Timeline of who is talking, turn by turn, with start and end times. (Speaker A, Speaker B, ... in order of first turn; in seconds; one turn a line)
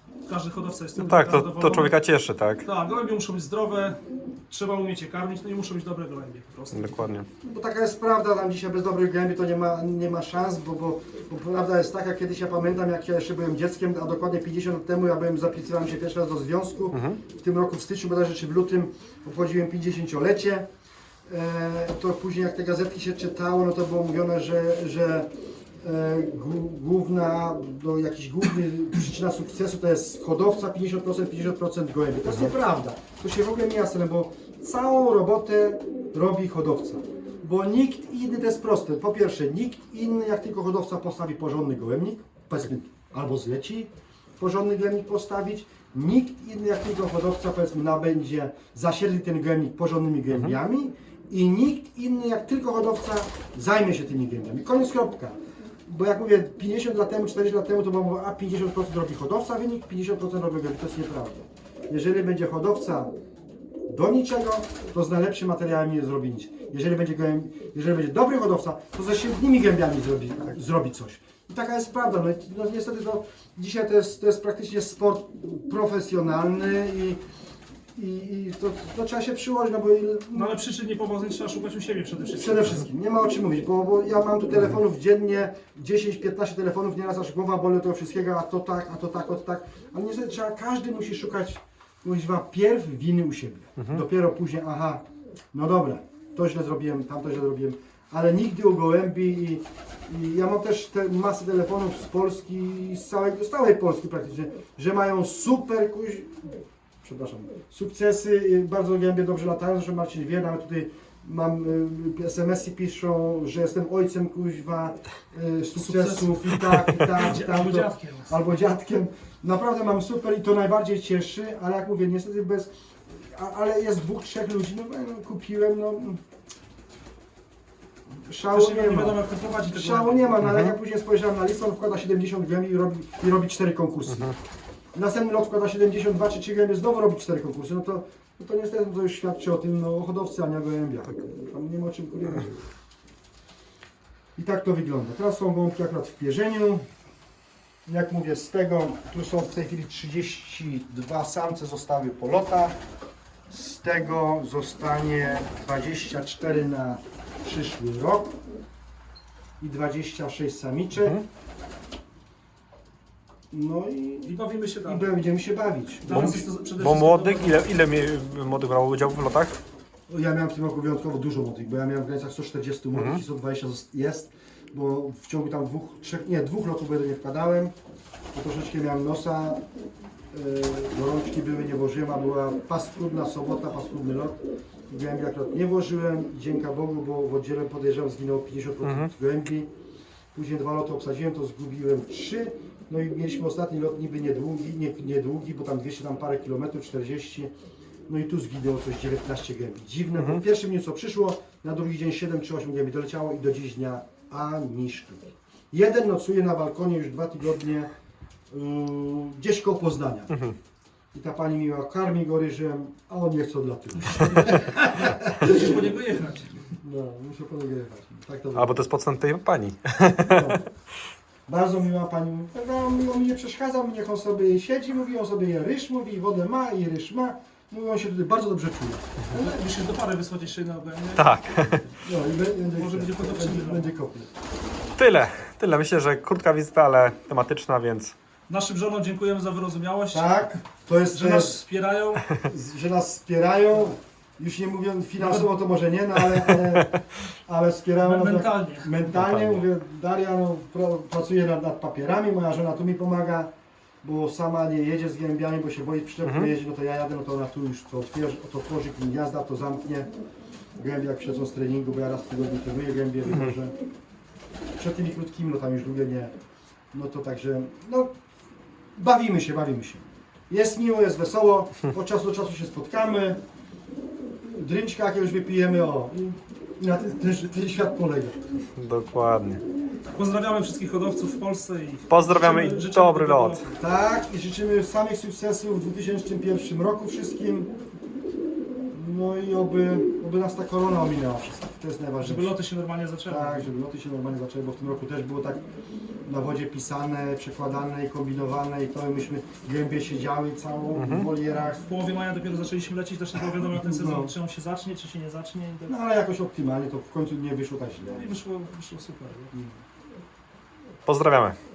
Speaker A: 0.3-1.9
Speaker B: 1.0-2.6
Speaker A: 2.6-7.1
Speaker B: 6.7-7.3
Speaker C: 7.4-20.7
Speaker B: 16.9-17.2
Speaker C: 21.3-25.3
Speaker C: 25.8-63.1
Speaker C: 63.9-77.2
Speaker C: 77.9-80.5
Speaker A: 80.3-82.8
Speaker C: 82.3-126.2
Speaker B: 93.8-94.0
Speaker A: 115.8-118.3
Speaker C: 128.2-134.3
Speaker A: 128.5-130.4
Speaker B: 130.4-130.8
Speaker C: 134.9-142.6
Speaker C: 144.3-146.8
Speaker C: 147.8-152.8
Speaker C: 153.5-158.3
Speaker C: 159.6-161.2
Speaker B: 160.9-161.2
Speaker C: 163.5-166.2
Speaker A: 164.2-165.1
Speaker A: 166.0-167.7
Speaker B: 166.1-169.6
Speaker C: 170.1-177.7
Speaker B: 172.9-173.2
Speaker C: 178.3-179.6
Speaker C: 180.3-189.7
Speaker B: 188.8-189.1
Speaker C: 190.3-197.5
Speaker C: 198.1-207.9
Speaker C: 208.5-210.3
Speaker C: 211.1-215.7
Speaker A: 215.4-216.5
Speaker C: 216.8-218.8
Speaker B: 218.5-220.6
Speaker C: 220.2-220.6
Speaker C: 221.5-229.5
Speaker A: 229.3-231.3
Speaker B: 231.2-231.9
Speaker C: 232.0-234.3
Speaker A: 232.8-233.9
Speaker B: 234.9-238.1
Speaker A: 238.5-240.5
Speaker C: 240.1-241.6
Speaker A: 241.1-242.2
Speaker C: 242.4-253.5
Speaker A: 245.2-245.4
Speaker B: 246.5-246.8
Speaker A: 248.0-248.9
Speaker B: 249.1-249.6
Speaker C: 254.0-260.1
Speaker B: 256.2-256.5
Speaker C: 260.8-263.7
Speaker C: 264.8-266.3
Speaker C: 266.9-268.1
Speaker C: 268.9-273.4
Speaker C: 274.5-278.4
Speaker B: 278.8-279.6
Speaker A: 280.1-283.8
Speaker B: 282.1-283.6
Speaker C: 283.8-287.7
Speaker C: 288.9-292.5
Speaker A: 292.2-293.7
Speaker C: 293.3-295.6
Speaker C: 296.2-301.8
Speaker B: 300.9-301.3
Speaker A: 301.8-305.9
Speaker C: 303.4-304.3
Speaker C: 305.9-308.3
Speaker A: 308.1-309.5
Speaker B: 311.1-311.6